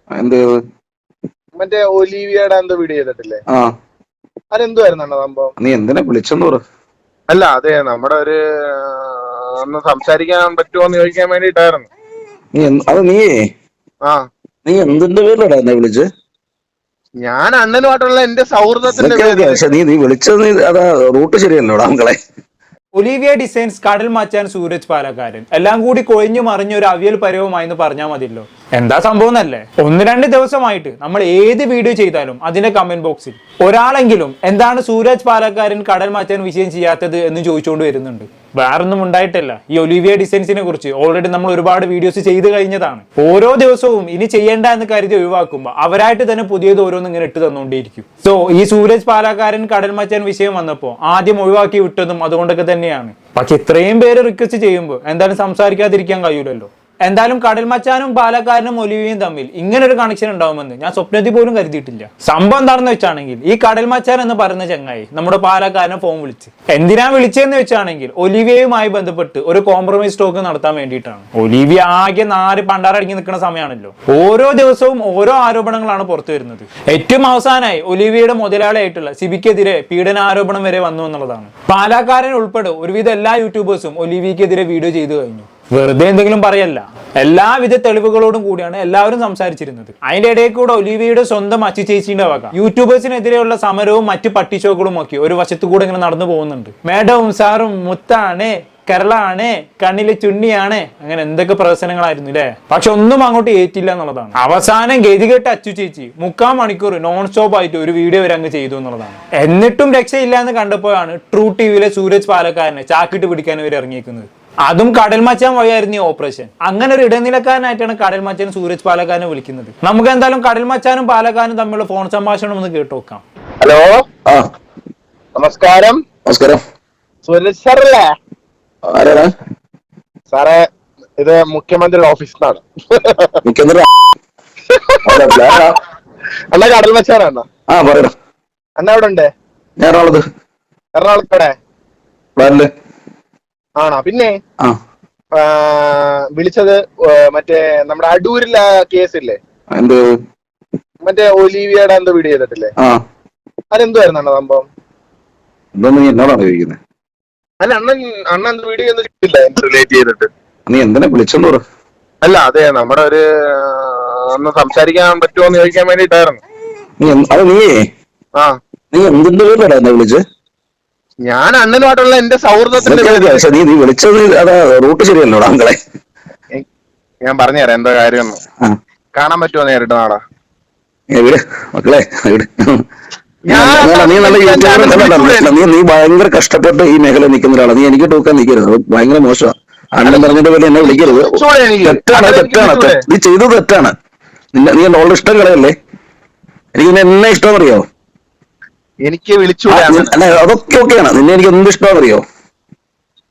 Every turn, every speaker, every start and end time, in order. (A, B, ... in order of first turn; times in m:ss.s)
0:00.1-0:00.6 A
0:01.5-0:03.4 B
0:04.5-0:05.5 B
0:05.6-0:06.6 A
0:07.3-0:11.9 B
0:12.5-0:13.4 A
0:14.6-0:16.0 A
0:17.2-0:19.6 B
0:18.9-0:22.2 A
0:22.9-2:03.2 C
2:03.6-2:04.0 B
2:05.3-2:06.0 B
2:06.2-2:06.6 A
2:07.2-2:08.1 B
2:08.9-2:09.3 A
2:10.3-2:10.6 B
2:11.2-2:13.3 B
2:13.4-2:13.9 A
2:14.7-2:15.5 B
2:15.0-2:15.8 A
2:16.5-2:17.4 B
2:17.7-2:18.1 A
2:18.8-2:19.3 B
2:19.8-2:20.2 A
2:20.9-2:21.5 B
2:22.4-2:22.7 A
2:23.8-2:24.3 B
2:25.3-2:29.4 B
2:29.7-2:30.0 A
2:31.0-2:32.7 B
2:33.7-2:34.7 B
2:35.8-2:36.8 A
2:37.6-2:40.3 B
2:40.7-2:41.6 A
2:42.2-2:46.4 B
2:47.0-2:47.7 A
2:48.9-2:50.2 A
2:51.2-2:53.6 B
2:52.8-2:55.8 A
2:57.2-2:58.4 B
2:59.1-3:00.2 B
3:01.1-3:02.8 A
3:03.5-3:05.5 B
3:03.5-3:13.9 A
3:10.0-3:13.0 B
3:14.5-3:15.7 A
3:16.7-3:17.8 A
3:19.0-3:20.2 B
3:19.7-3:22.2 A